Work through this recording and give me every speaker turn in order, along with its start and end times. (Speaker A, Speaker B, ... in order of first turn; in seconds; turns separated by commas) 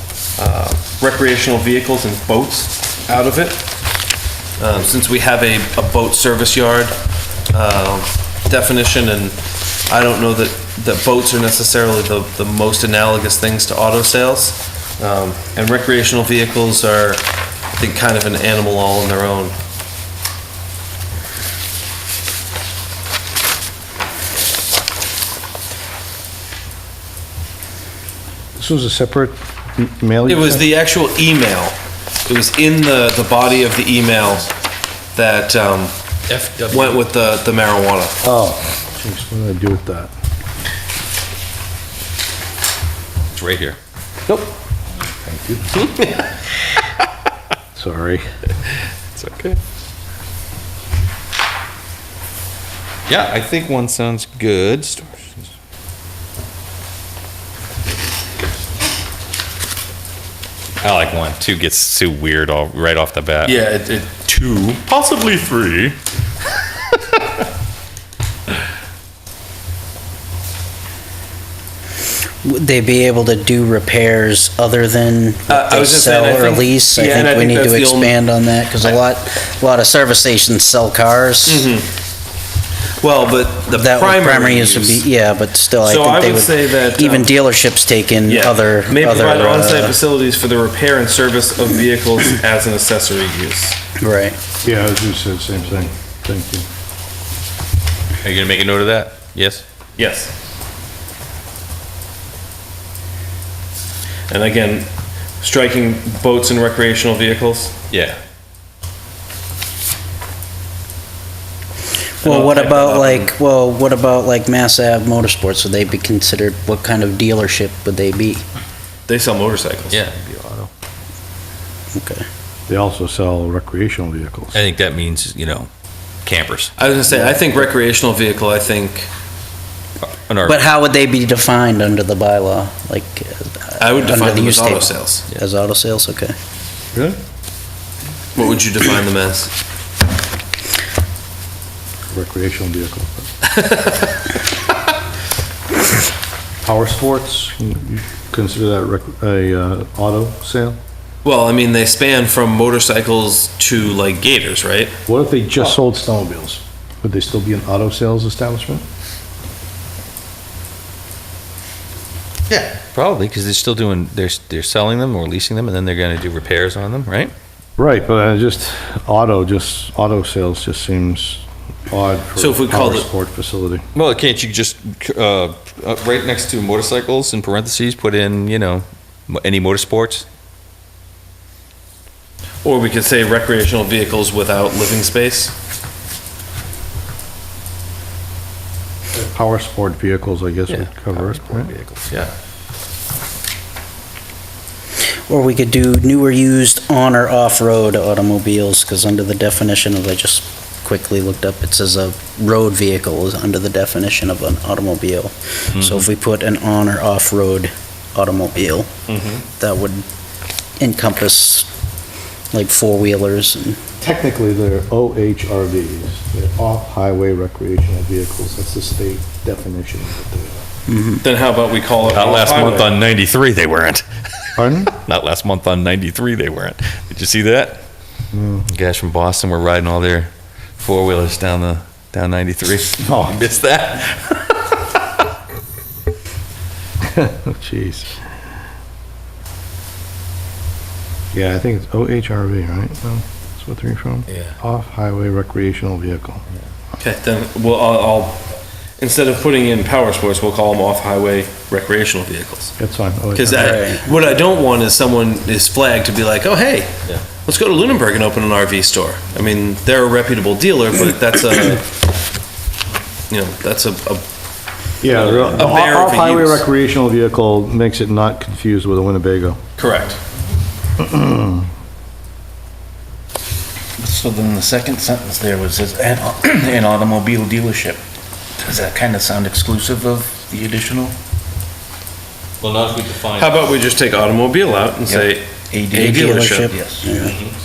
Speaker A: 0.4-3.6, Speaker A: 4.6-7.0, Speaker A: 7.5-17.2, Speaker A: 17.8-19.5, Speaker B: 28.6-30.7, Speaker A: 30.3-34.5, Speaker A: 35.1-36.0, Speaker C: 36.3-37.0, Speaker A: 36.7-38.2, Speaker B: 38.2-40.1, Speaker C: 43.4-43.8, Speaker B: 45.2-45.7, Speaker C: 45.7-46.2, Speaker B: 47.8-48.2, Speaker C: 49.1-49.6, Speaker C: 53.1-55.5, Speaker C: 60.8-63.6, Speaker A: 63.4-65.9, Speaker C: 65.6-66.0, Speaker D: 72.4-81.7, Speaker A: 75.5-78.2, Speaker A: 81.5-81.9, Speaker A: 83.0-85.0, Speaker D: 83.7-90.0, Speaker A: 85.8-87.3, Speaker A: 88.3-93.8, Speaker D: 94.0-94.4, Speaker B: 94.6-96.7, Speaker C: 98.2-99.6, Speaker A: 100.0-100.3, Speaker A: 104.3-104.9, Speaker A: 105.4-107.7, Speaker C: 107.9-108.2, Speaker D: 112.2-118.5, Speaker A: 112.2-113.3, Speaker A: 119.1-120.0, Speaker C: 119.9-120.7, Speaker D: 122.0-122.2, Speaker B: 122.7-124.6, Speaker C: 124.5-125.7, Speaker C: 126.2-126.7, Speaker A: 126.8-129.1, Speaker B: 127.1-127.5, Speaker C: 130.0-130.6, Speaker D: 130.4-136.3, Speaker A: 133.8-135.3, Speaker A: 138.4-139.5, Speaker B: 142.1-143.3, Speaker A: 143.4-144.2, Speaker B: 146.6-150.8, Speaker A: 151.2-154.9, Speaker B: 155.1-158.8, Speaker C: 162.5-167.3, Speaker B: 167.8-173.9, Speaker A: 172.4-173.1, Speaker C: 173.9-180.3, Speaker A: 182.6-185.5, Speaker B: 189.1-191.7, Speaker C: 190.7-192.3, Speaker D: 195.3-208.9, Speaker C: 205.7-206.1, Speaker C: 209.1-209.4, Speaker D: 209.5-210.1, Speaker D: 210.8-211.7, Speaker D: 212.5-213.8, Speaker B: 214.0-220.7, Speaker D: 220.9-221.2, Speaker A: 221.2-222.9, Speaker C: 222.2-227.8, Speaker B: 224.6-224.9, Speaker B: 228.3-228.7, Speaker C: 228.7-234.8, Speaker B: 233.0-233.4, Speaker B: 237.0-238.2, Speaker B: 241.3-246.4, Speaker A: 247.0-252.8, Speaker B: 252.8-253.8, Speaker A: 253.3-262.0, Speaker D: 253.5-254.1, Speaker A: 263.3-264.2, Speaker B: 265.0-269.6, Speaker A: 265.0-266.6, Speaker A: 269.8-270.2, Speaker B: 271.0-271.7, Speaker E: 274.2-278.0, Speaker E: 278.7-281.1, Speaker C: 282.6-283.6, Speaker A: 283.3-286.8, Speaker E: 285.1-287.2, Speaker D: 286.0-287.4, Speaker C: 287.1-287.5